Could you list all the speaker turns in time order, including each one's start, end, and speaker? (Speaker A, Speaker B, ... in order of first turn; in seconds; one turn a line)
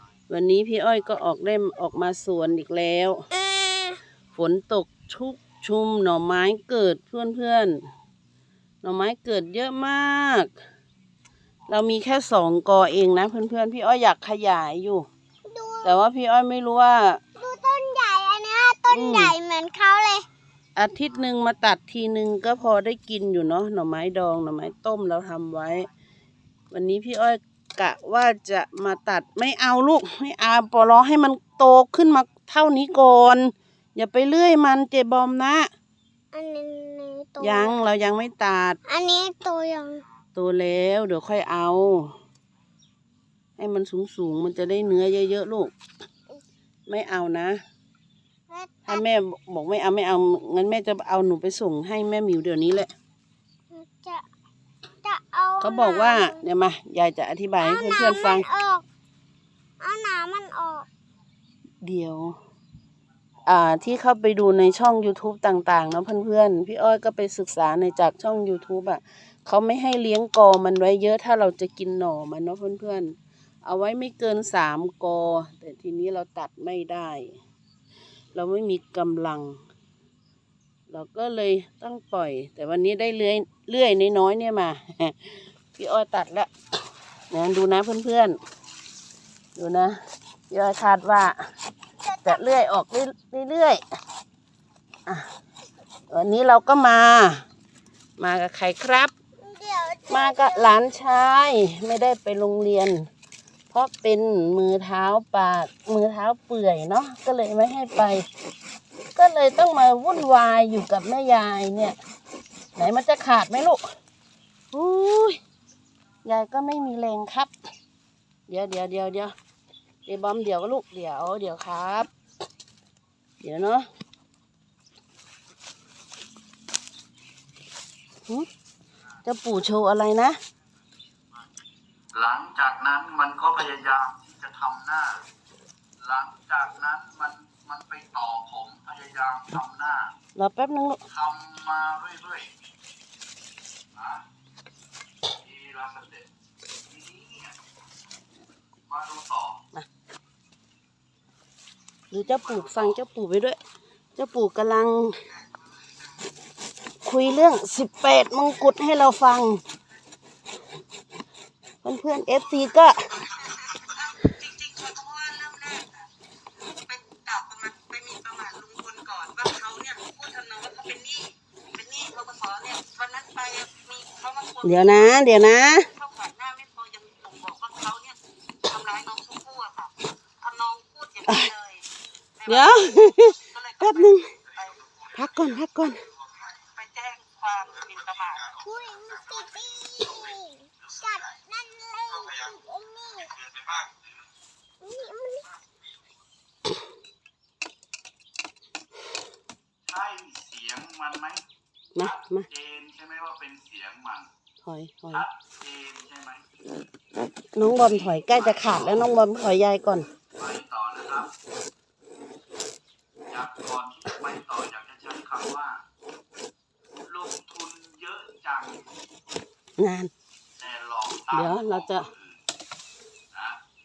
Speaker A: 0.3-3.3
Speaker B: 3.3-4.0
Speaker A: 4.3-7.9
Speaker A: 8.8-10.5
Speaker A: 11.7-15.1
Speaker B: 15.5-16.0
Speaker A: 15.8-17.2
Speaker B: 17.4-20.3
Speaker A: 18.9-19.3
Speaker A: 20.8-25.9
Speaker A: 26.7-35.7
Speaker B: 36.3-37.8
Speaker A: 37.4-38.8
Speaker B: 38.9-40.0
Speaker A: 40.4-42.1
Speaker A: 43.6-45.7
Speaker A: 46.9-47.6
Speaker B: 48.5-49.0
Speaker A: 48.9-52.9
Speaker B: 53.7-54.3
Speaker B: 55.0-56.4
Speaker A: 55.6-58.5
Speaker B: 57.6-58.9
Speaker B: 59.8-60.9
Speaker A: 61.8-62.4
Speaker A: 63.5-77.4
Speaker A: 78.3-79.6
Speaker A: 80.9-86.5
Speaker A: 87.3-88.4
Speaker A: 89.6-90.0
Speaker A: 90.5-91.4
Speaker B: 92.0-92.5
Speaker A: 92.2-93.8
Speaker A: 96.1-97.4
Speaker A: 98.2-99.1
Speaker B: 99.4-100.7
Speaker A: 100.1-103.1
Speaker A: 103.7-108.3
Speaker A: 109.2-112.0
Speaker A: 112.8-113.8
Speaker A: 114.7-115.4
Speaker A: 116.2-117.5
Speaker A: 118.5-119.3
Speaker A: 120.1-122.1
Speaker A: 123.4-123.9
Speaker A: 129.2-130.4
Speaker C: 132.1-135.2
Speaker C: 136.0-140.1
Speaker A: 140.4-141.0
Speaker C: 141.1-142.5
Speaker C: 143.9-144.2
Speaker C: 145.3-146.3
Speaker C: 146.9-147.6
Speaker C: 148.9-149.6
Speaker A: 152.1-153.6
Speaker C: 152.2-153.0
Speaker A: 154.2-155.2
Speaker A: 157.0-159.6
Speaker A: 161.8-162.9
Speaker D: 164.4-165.8
Speaker D: 167.1-174.6
Speaker A: 174.6-175.9
Speaker D: 176.0-178.2
Speaker D: 178.7-179.9
Speaker D: 180.4-181.8
Speaker A: 181.3-181.6
Speaker A: 182.4-184.3
Speaker A: 185.1-186.0
Speaker D: 186.8-188.5
Speaker B: 188.6-193.4
Speaker B: 194.8-195.5
Speaker C: 199.9-201.4
Speaker C: 201.9-204.3
Speaker A: 201.9-202.5
Speaker A: 204.6-205.2
Speaker C: 205.1-206.4
Speaker A: 207.6-210.1
Speaker C: 207.8-209.1
Speaker C: 210.4-211.3
Speaker C: 213.3-215.8
Speaker C: 217.1-218.8
Speaker A: 219.8-220.1
Speaker C: 220.6-222.4
Speaker A: 221.3-222.1
Speaker C: 223.3-223.6